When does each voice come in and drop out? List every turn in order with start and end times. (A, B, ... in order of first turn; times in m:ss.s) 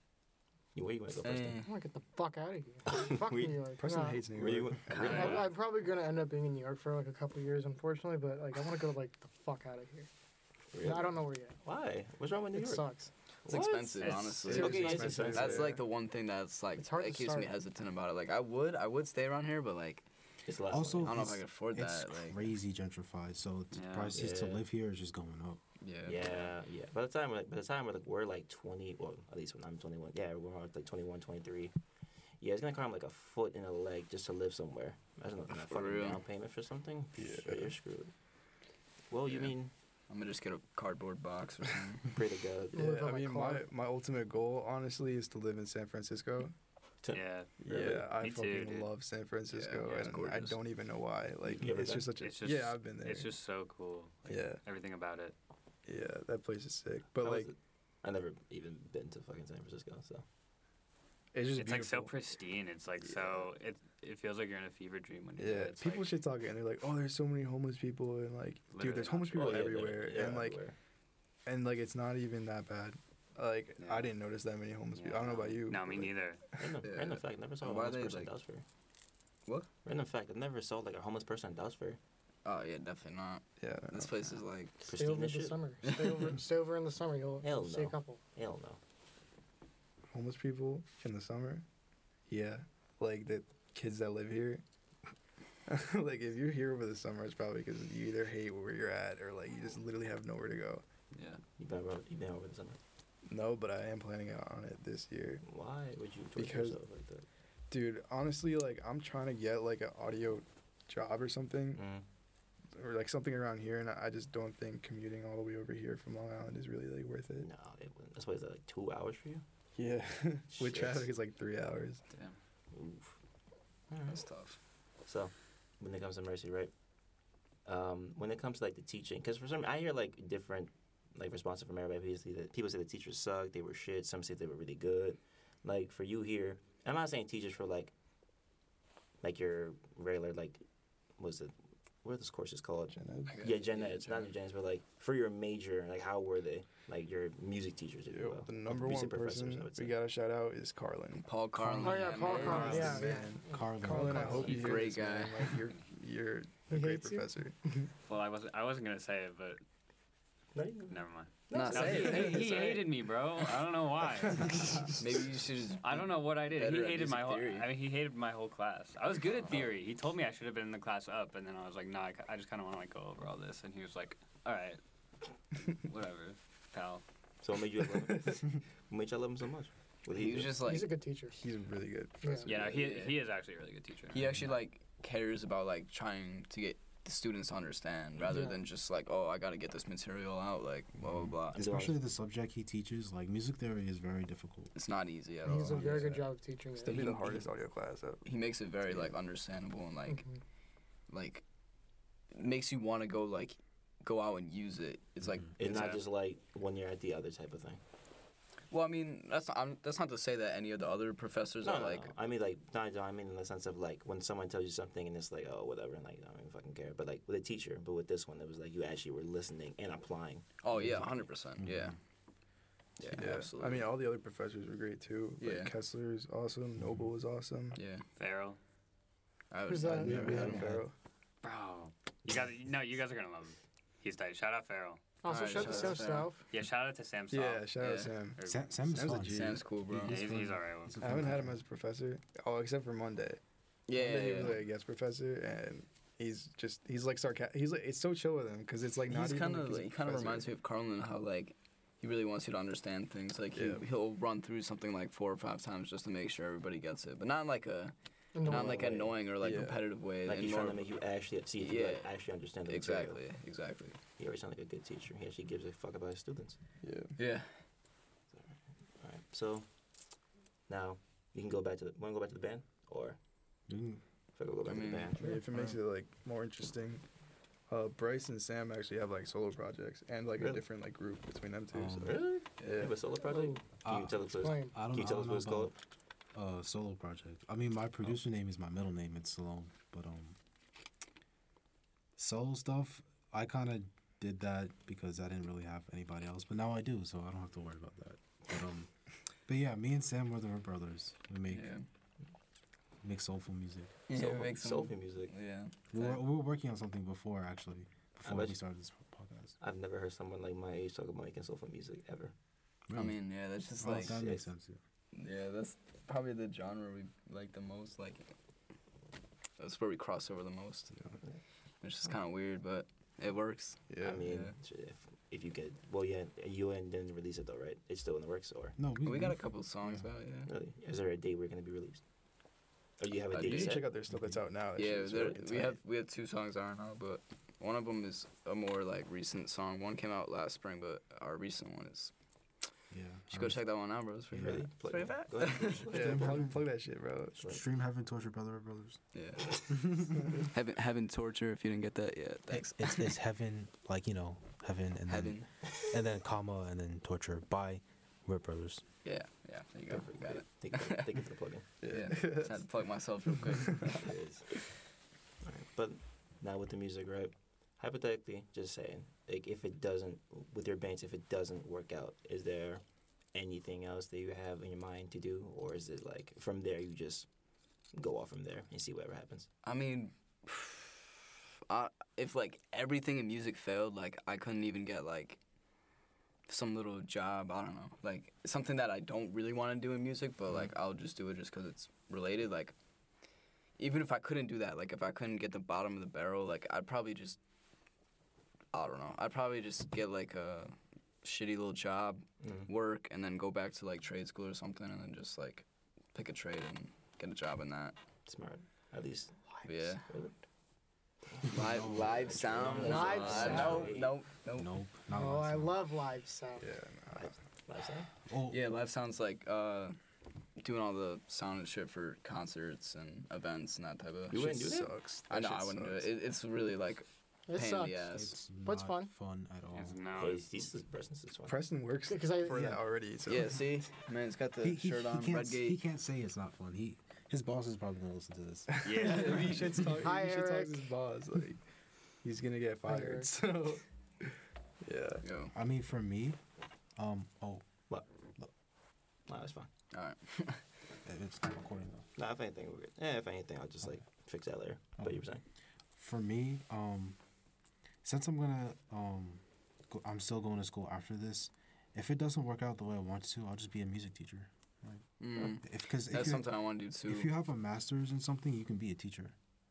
0:00.8-0:01.6 A
0:01.2-0:01.7 B
0:01.6-0:04.3 C
0:02.9-0:03.6 A
0:03.8-0:05.4 D
0:04.3-0:05.5 A
0:05.0-0:05.5 E
0:05.0-0:10.1 C
0:10.7-0:12.9 A
0:10.8-0:11.6 C
0:12.6-0:13.1 C
0:13.4-0:15.8 A
0:13.5-0:20.0 B
0:14.0-0:15.0 E
0:14.4-0:15.8 D
0:16.8-0:17.5 C
0:20.5-0:21.2 A
0:20.7-0:25.6 F
0:21.0-0:22.5 B
0:23.7-0:24.2 E
0:24.1-0:24.6 A
0:25.8-0:26.4 B
0:26.0-0:31.7 A
0:32.4-0:38.1 A
0:35.6-0:36.2 B
0:37.2-0:37.7 D
0:39.1-0:39.7 A
0:40.1-0:42.2 B
0:42.1-0:42.8 A
0:42.7-0:43.6 C
0:42.8-0:46.5 D
0:47.0-0:48.0 A
0:47.1-0:48.9 E
0:47.6-0:53.3 D
0:49.5-0:50.6 B
0:51.5-0:52.1 A
0:51.8-0:55.4 E
0:54.2-0:54.6 D
0:55.9-0:57.5 D
0:57.2-1:00.2 A
1:01.3-1:02.1 D
1:01.5-1:06.2 E
1:03.1-1:03.4 D
1:05.4-1:10.6 D
1:08.7-1:09.6 E
1:09.2-1:10.8 A
1:11.5-1:16.1 D
1:13.8-1:14.1 E
1:15.0-1:16.4 E
1:16.6-1:18.6 A
1:16.8-1:18.3 B
1:19.8-1:22.0 A
1:22.4-1:24.8 B
1:23.6-1:24.2 D
1:24.8-1:25.6 A
1:24.9-1:28.2 C
1:25.8-1:26.3 B
1:27.4-1:28.8 A
1:30.1-1:31.6 D
1:32.3-1:34.6 D
1:35.7-1:40.8 D
1:41.1-1:41.4 E
1:41.6-1:42.8 A
1:43.3-1:45.4 D
1:45.4-1:47.3 A
1:46.4-1:46.8 D
1:47.7-1:51.8 D
1:51.8-1:52.0 A
1:52.8-1:57.5 D
1:57.4-1:59.4 A
1:59.8-2:02.0 D
2:00.5-2:01.1 A
2:02.1-2:02.4 E
2:02.7-2:03.2 A
2:03.9-2:04.2 A
2:04.1-2:04.6 B
2:05.0-2:06.7 A
2:07.6-2:17.9 A
2:19.2-2:20.6 A
2:21.2-2:30.0 A
2:22.9-2:23.5 D
2:23.3-2:24.3 B
2:28.1-2:37.9 D
2:31.3-2:33.1 B
2:31.8-2:34.7 C
2:32.3-2:32.6 E
2:33.5-2:34.4 F
2:34.2-2:35.6 B
2:36.7-2:37.3 C
2:38.1-2:39.6 E
2:40.6-2:42.7 A
2:40.9-2:45.0 E
2:41.5-2:42.9 B
2:45.0-2:47.7 B
2:45.8-2:54.8 E
2:55.6-2:57.0 E
2:57.4-3:00.6 A
3:00.1-3:00.9 B
3:00.6-3:01.4 C
3:01.4-3:02.8 D
3:02.2-3:02.5 C
3:02.5-3:04.4 E
3:02.6-3:03.2 B
3:04.1-3:11.6 B
3:08.2-3:08.6 C
3:11.0-3:14.7 F
3:11.5-3:12.0 A
3:14.8-3:16.0 B
3:15.4-3:17.2 C
3:15.6-3:16.2 D
3:16.8-3:18.2 D
3:16.9-3:17.5 B
3:18.2-3:20.2 B
3:20.1-3:20.4 C
3:21.1-3:21.4 B
3:22.3-3:26.0 B
3:25.6-3:27.8 A
3:25.7-3:26.0 E
3:28.7-3:32.1 B
3:31.6-3:40.5 A
3:40.6-3:42.0 B
3:40.7-3:42.0 F
3:43.0-3:43.9 B
3:43.1-3:47.8 D
3:45.4-3:45.7 B
3:46.8-3:47.1 F
3:47.8-3:48.0 B
3:48.2-3:48.6 E
3:49.5-3:50.8 B
3:49.7-3:50.6 C
3:49.8-3:50.9 D
3:50.1-3:50.7 F
3:50.5-3:50.7 A
3:51.4-3:56.0 E
3:55.2-3:56.5 C
3:55.3-3:56.3 B
3:56.5-3:57.8 E
3:57.3-3:59.7 D
3:57.8-3:58.2 B
3:58.4-3:58.8 E
3:58.4-4:01.6 F
3:59.1-4:00.2 B
4:00.1-4:01.2 E
4:01.0-4:10.5 D
4:03.9-4:04.6 B
4:09.1-4:20.9 B
4:13.5-4:13.8 D
4:18.4-4:19.0 C
4:18.5-4:19.1 A
4:19.4-4:19.8 D
4:20.2-4:23.2 A
4:21.6-4:22.1 B
4:22.7-4:24.0 B
4:24.2-4:26.6 A
4:26.8-4:27.1 D
4:27.2-4:27.6 B
4:28.3-4:29.7 A
4:30.7-4:33.2 A
4:33.7-4:34.0 F
4:34.4-4:35.3 A
4:34.6-4:35.2 B
4:35.2-4:37.0 D
4:35.5-4:35.8 F
4:37.7-4:43.0 D
4:40.4-4:40.6 A
4:41.7-4:42.2 F
4:42.0-4:45.8 A
4:43.8-4:45.8 F
4:44.4-4:44.8 C
4:46.3-4:50.4 F
4:52.2-4:58.9 F
4:59.5-5:01.7 F
5:01.5-5:01.8 B
5:03.0-5:04.0 F
5:04.1-5:06.2 B
5:04.1-5:05.3 A
5:05.9-5:09.6 F
5:08.2-5:08.6 A
5:09.6-5:12.3 A
5:12.9-5:13.2 F
5:12.9-5:14.2 B
5:13.8-5:14.8 F
5:13.9-5:14.4 A
5:15.1-5:18.3 B
5:19.6-5:21.0 B
5:21.8-5:24.5 B
5:23.9-5:24.2 D
5:24.0-5:28.8 A
5:28.8-5:30.1 F
5:29.0-5:30.5 B
5:30.5-5:32.0 A
5:33.0-5:33.9 A
5:33.3-5:33.8 B
5:33.4-5:35.8 D
5:34.1-5:34.4 F
5:34.8-5:42.1 B
5:42.9-5:43.6 F
5:43.3-5:45.9 B
5:44.3-5:44.6 F
5:44.4-5:46.5 A
5:45.9-5:47.4 D
5:46.0-5:46.5 F
5:47.4-5:47.6 A
5:47.4-5:49.0 F
5:49.1-5:50.0 B
5:49.7-5:50.2 F
5:50.5-5:53.2 B
5:52.5-5:58.8 F
5:55.1-5:55.5 B
5:59.0-6:01.2 B
5:59.9-6:01.7 A
6:01.8-6:02.6 D
6:01.9-6:04.1 B
6:03.5-6:04.0 D
6:03.9-6:04.6 A
6:05.4-6:12.8 A
6:13.3-6:17.3 A
6:17.9-6:19.5 A
6:19.6-6:25.4 B
6:26.5-6:32.7 B
6:33.8-6:37.4 B
6:38.7-6:48.0 B
6:42.4-6:42.7 A
6:48.3-6:49.4 A
6:49.6-6:50.0 B
6:50.0-6:50.4 A
6:51.3-6:54.1 A
6:51.5-6:53.9 F
6:51.5-6:54.7 B
6:52.8-6:54.0 C
6:54.5-6:55.8 F
6:55.1-6:56.7 C
6:56.6-6:57.3 D
6:57.2-6:58.1 A
6:58.3-6:58.7 F
6:58.5-7:00.0 B
7:00.6-7:04.6 B
7:04.3-7:04.9 A
7:04.3-7:06.1 D
7:05.3-7:08.3 B
7:07.5-7:09.1 C
7:08.1-7:10.0 F
7:09.7-7:10.4 E
7:10.2-7:11.6 A
7:11.5-7:13.6 D
7:12.1-7:12.7 C
7:13.3-7:15.8 B
7:14.6-7:18.9 F
7:18.7-7:21.6 D
7:18.8-7:19.8 E
7:20.0-7:20.9 C
7:22.2-7:25.2 D
7:22.9-7:23.3 C
7:25.2-7:25.5 B
7:25.5-7:26.4 F
7:27.0-7:27.6 F
7:29.3-7:29.7 A
7:29.9-7:30.6 B
7:31.0-7:32.1 F
7:32.2-7:35.4 A
7:35.9-7:37.2 F
7:38.0-7:46.5 F
7:45.2-7:47.3 B
7:47.0-7:49.4 F